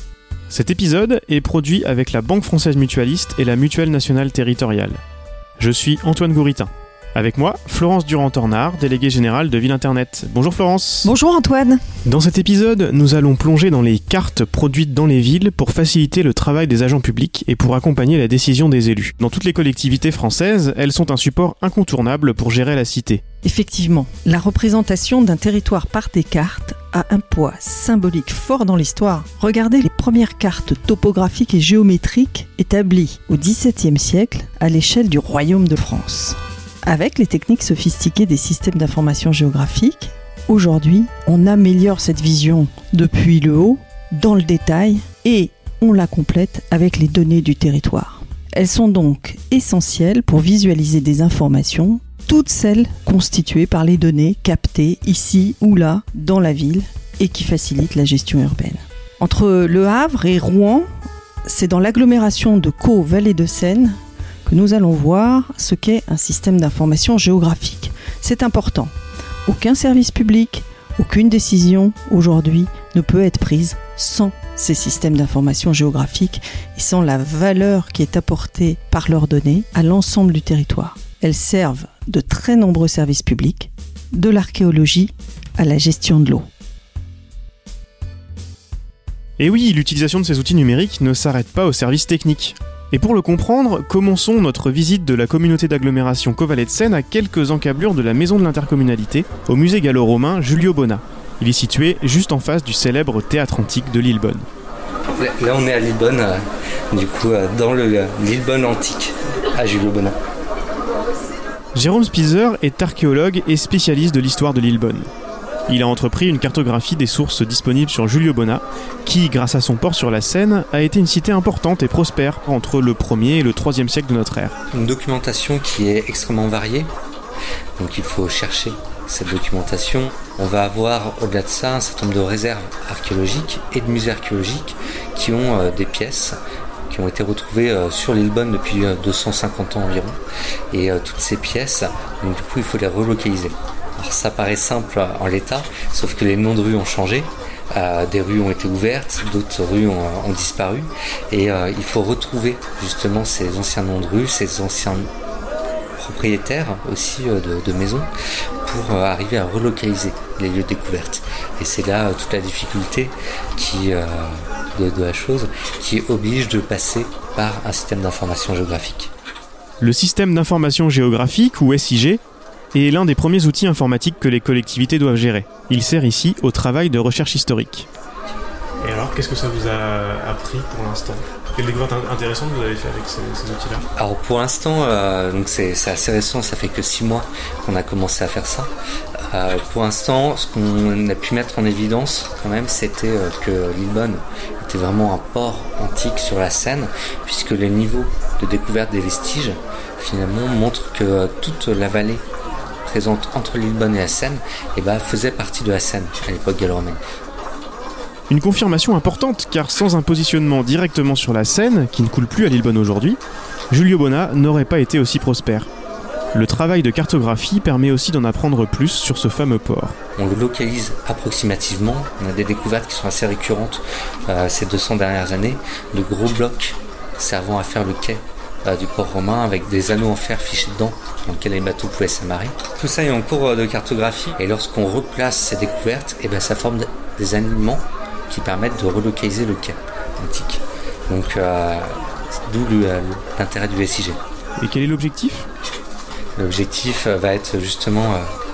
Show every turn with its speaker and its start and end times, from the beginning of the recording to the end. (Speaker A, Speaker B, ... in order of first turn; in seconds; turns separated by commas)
Speaker A: 0.5-5.0, Speaker A: 5.6-11.1, Speaker B: 11.0-11.8, Speaker A: 12.1-23.2, Speaker B: 23.4-60.9, Speaker B: 61.5-68.9, Speaker B: 69.5-86.5, Speaker A: 89.4-104.5, Speaker C: 105.1-106.4, Speaker C: 106.9-110.2, Speaker A: 111.7-115.1, Speaker A: 115.7-124.5, Speaker C: 124.7-126.9, Speaker C: 127.8-136.4, Speaker C: 136.9-140.2, Speaker C: 140.7-155.1, Speaker C: 156.0-158.1, Speaker C: 158.6-169.1, Speaker A: 169.8-172.2, Speaker A: 172.7-177.9, Speaker A: 178.8-183.8, Speaker C: 184.0-188.7, Speaker C: 189.3-202.2, Speaker C: 202.8-207.0, Speaker A: 208.3-215.7, Speaker A: 216.3-220.0, Speaker C: 220.2-244.2, Speaker A: 244.6-245.4, Speaker C: 246.3-248.2